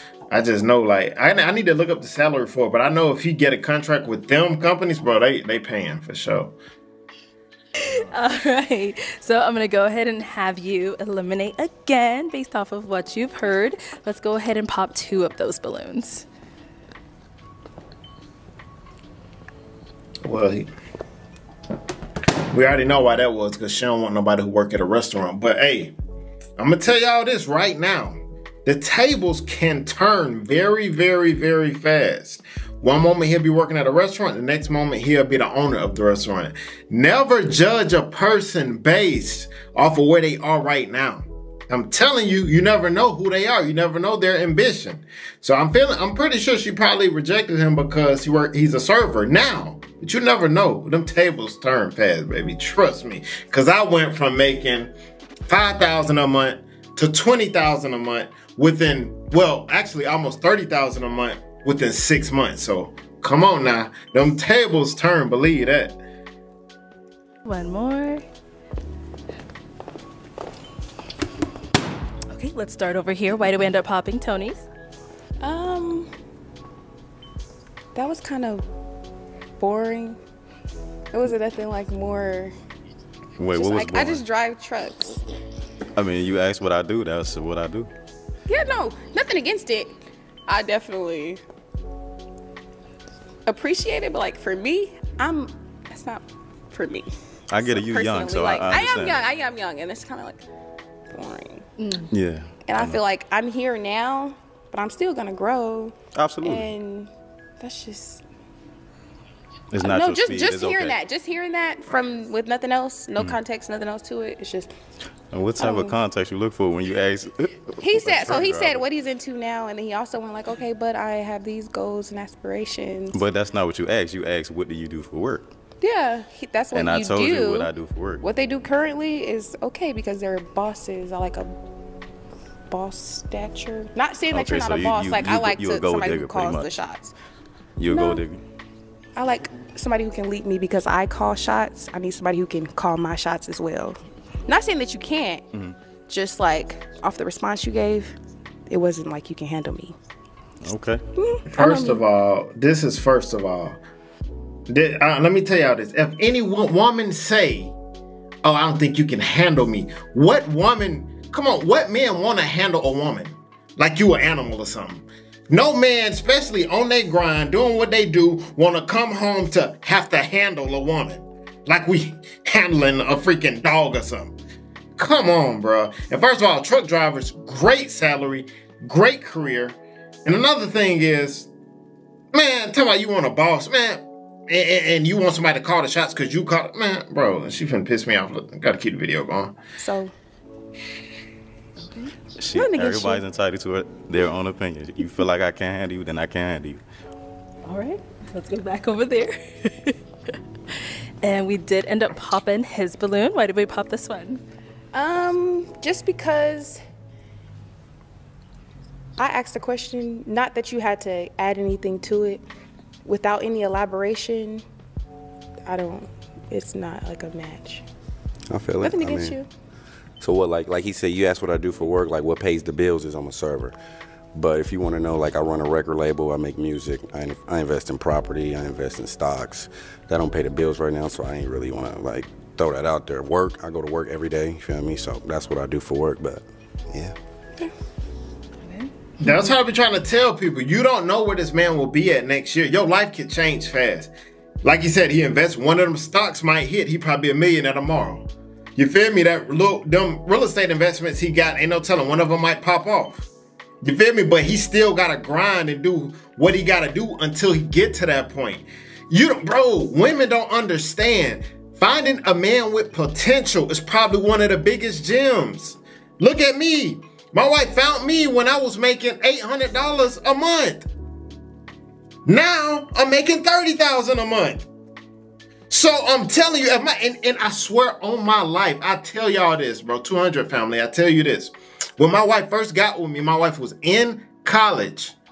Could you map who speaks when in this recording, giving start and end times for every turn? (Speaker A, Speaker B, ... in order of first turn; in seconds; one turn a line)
Speaker A: 0.3-6.5
Speaker B: 7.9-16.2
Speaker A: 20.2-20.7
Speaker A: 22.5-25.9
Speaker A: 26.6-54.9
Speaker A: 55.5-66.0
Speaker B: 67.4-68.2
Speaker B: 72.3-74.6
Speaker C: 75.4-76.1
Speaker C: 77.9-78.6
Speaker C: 79.6-80.2
Speaker C: 81.1-82.5
Speaker D: 83.4-84.2
Speaker C: 83.5-85.2
Speaker D: 85.9-87.9
Speaker C: 88.5-89.9
Speaker C: 90.5-91.4
Speaker C: 93.5-100.4
Speaker D: 97.5-99.2
Speaker C: 101.1-101.6
Speaker B: 101.8-102.1
Speaker D: 102.1-103.0
Speaker C: 102.7-108.2
Speaker D: 106.1-106.7
Speaker D: 109.7-110.9
Speaker C: 109.8-114.7
Speaker D: 115.3-118.8
Speaker C: 115.6-116.0
Speaker C: 117.8-123.2
Speaker D: 123.1-125.5
Speaker C: 125.8-131.5
Speaker D: 126.7-128.2
Speaker C: 132.7-137.1
Speaker D: 134.3-136.7
Speaker D: 137.8-138.4
Speaker C: 137.9-138.2
Speaker C: 139.1-145.4
Speaker D: 145.5-145.8
Speaker C: 146.1-148.1
Speaker C: 148.7-149.9
Speaker D: 150.6-151.0
Speaker C: 151.2-152.0
Speaker A: 151.5-153.8
Speaker A: 154.7-157.7
Speaker A: 158.4-174.3
Speaker A: 175.0-181.5
Speaker A: 182.3-189.6
Speaker C: 189.8-190.1
Speaker D: 192.4-196.8
Speaker C: 192.5-193.2
Speaker B: 197.7-200.0
Speaker B: 201.2-204.4
Speaker C: 204.9-206.8
Speaker C: 209.2-212.4
Speaker C: 213.1-214.6
Speaker C: 215.6-217.8
Speaker E: 218.5-219.4
Speaker C: 218.8-219.4
Speaker E: 220.2-223.8
Speaker E: 224.3-237.1
Speaker B: 238.6-238.9
Speaker A: 239.2-244.1
Speaker A: 244.6-253.2
Speaker A: 253.8-270.9
Speaker A: 272.2-274.6
Speaker A: 275.7-285.1